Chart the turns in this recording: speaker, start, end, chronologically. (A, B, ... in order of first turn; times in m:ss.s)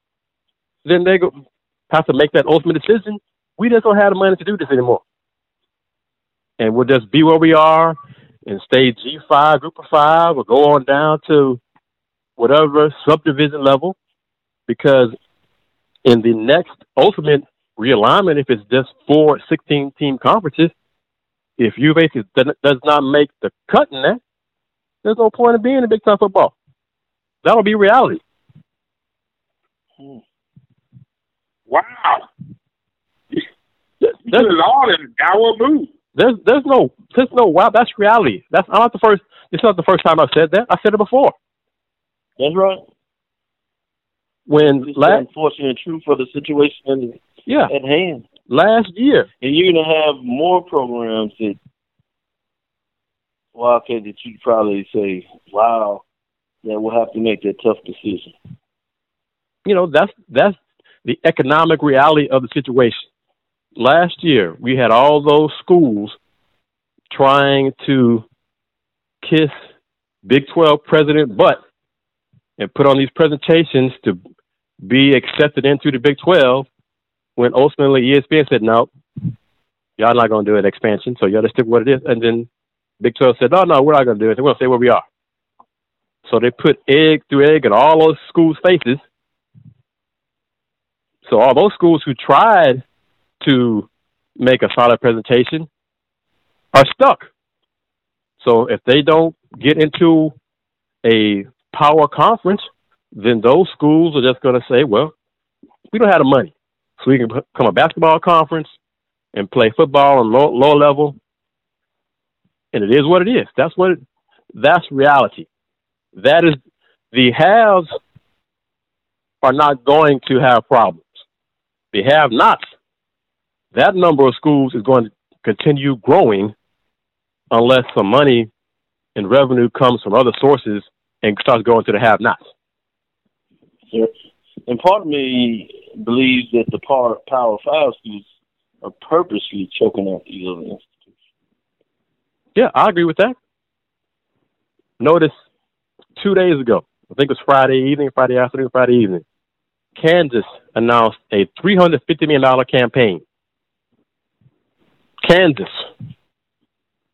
0:00.8-0:01.4 A
0:01.9-0:05.0 A
0:06.6-0:11.6 A
0:12.4-0:14.0 A
0:14.7-0:15.1 A
0:16.0-0:20.7 A
0:21.6-0:24.2 A
0:25.0-0:26.5 A
0:27.4-0:28.2 A
0:31.7-0:32.2 B
0:34.2-0:35.9 B
0:36.1-0:41.3 A
0:42.4-0:42.8 C
0:44.5-0:45.2 A
0:44.6-0:47.2 C
0:47.5-0:47.7 A
0:47.7-0:48.2 C
0:48.5-0:49.3 A
0:49.4-0:51.6 C
0:53.5-0:56.0 C
0:56.6-0:58.3 C
0:59.6-1:03.1 A
1:03.8-1:06.2 A
1:07.1-1:08.2 A
1:09.2-1:09.6 A
1:10.2-1:11.6 A
1:12.6-1:14.2 A
1:14.8-1:16.7 A
1:17.4-1:18.9 A
1:20.0-1:22.5 A
1:23.0-1:25.0 A
1:26.3-1:29.0 A
1:31.2-1:32.8 A
1:33.4-1:35.7 A
1:36.7-1:37.3 A
1:38.4-1:40.3 A
1:41.0-1:45.1 A
1:45.9-1:48.7 A
1:49.3-1:51.2 A
1:52.7-1:54.0 A
1:54.5-1:55.5 A
1:56.1-1:56.6 A
1:57.1-1:57.9 A
1:59.4-2:01.2 A
2:01.9-2:02.6 A
2:03.7-2:06.5 A
2:07.5-2:08.5 A
2:09.2-2:12.4 A
2:14.7-2:18.2 C
2:18.8-2:20.9 C
2:22.6-2:23.4 A
2:25.0-2:25.3 A
2:26.2-2:29.2 A
2:30.0-2:33.2 A
2:35.2-2:35.9 A